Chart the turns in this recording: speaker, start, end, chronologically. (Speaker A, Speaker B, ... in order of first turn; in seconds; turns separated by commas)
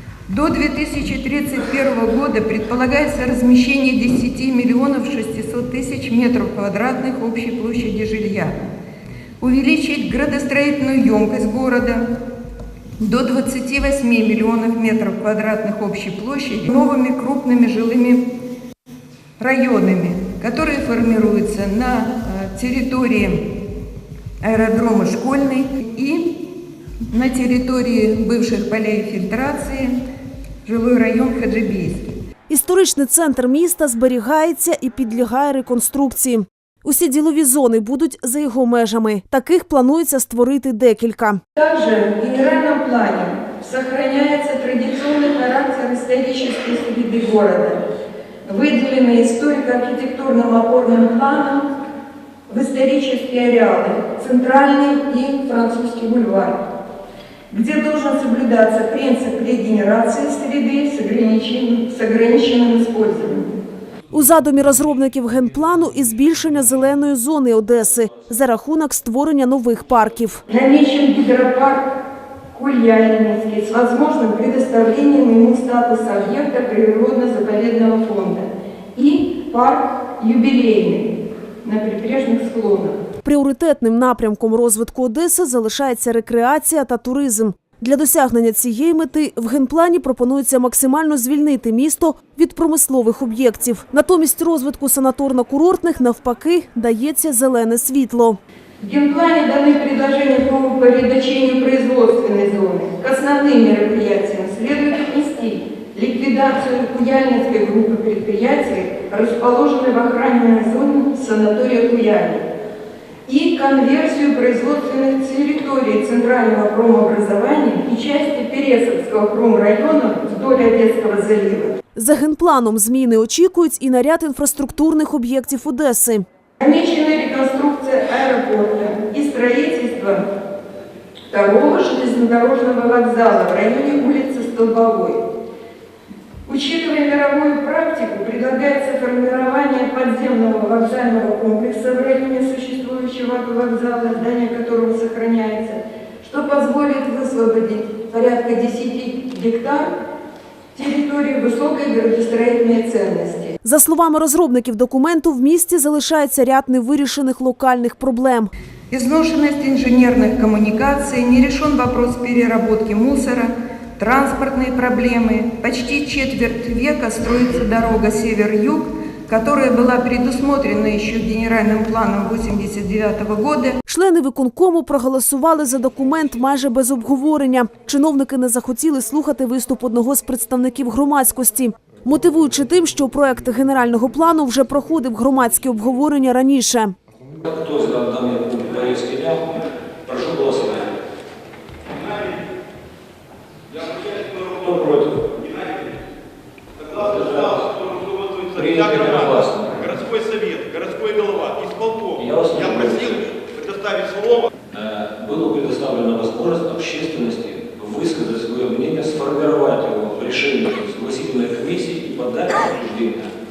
Speaker A: 0.3-8.7, Speaker A: 9.4-12.1, Speaker A: 13.0-18.2, Speaker A: 19.4-23.5, Speaker A: 24.4-26.3, Speaker A: 27.1-29.9, Speaker A: 30.6-32.1, Speaker B: 32.5-41.4, Speaker A: 41.5-47.8, Speaker A: 48.4-51.7, Speaker A: 52.5-56.6, Speaker A: 57.5-63.5, Speaker B: 64.1-70.4, Speaker A: 70.5-71.9, Speaker A: 72.5-81.1, Speaker A: 81.6-83.0, Speaker B: 83.2-98.4, Speaker A: 98.8-112.4, Speaker A: 113.2-121.8, Speaker B: 121.9-126.2, Speaker A: 126.6-130.3, Speaker A: 131.3-135.2, Speaker A: 136.4-149.9, Speaker A: 150.7-153.5, Speaker B: 153.6-158.5, Speaker A: 158.9-173.8, Speaker B: 173.9-186.9, Speaker C: 187.4-189.4, Speaker C: 190.0-190.9, Speaker C: 194.3-195.3, Speaker C: 196.9-197.9, Speaker D: 198.1-198.5, Speaker C: 198.5-200.0, Speaker D: 200.0-202.2, Speaker C: 202.2-203.2, Speaker D: 203.5-204.5, Speaker C: 204.7-213.3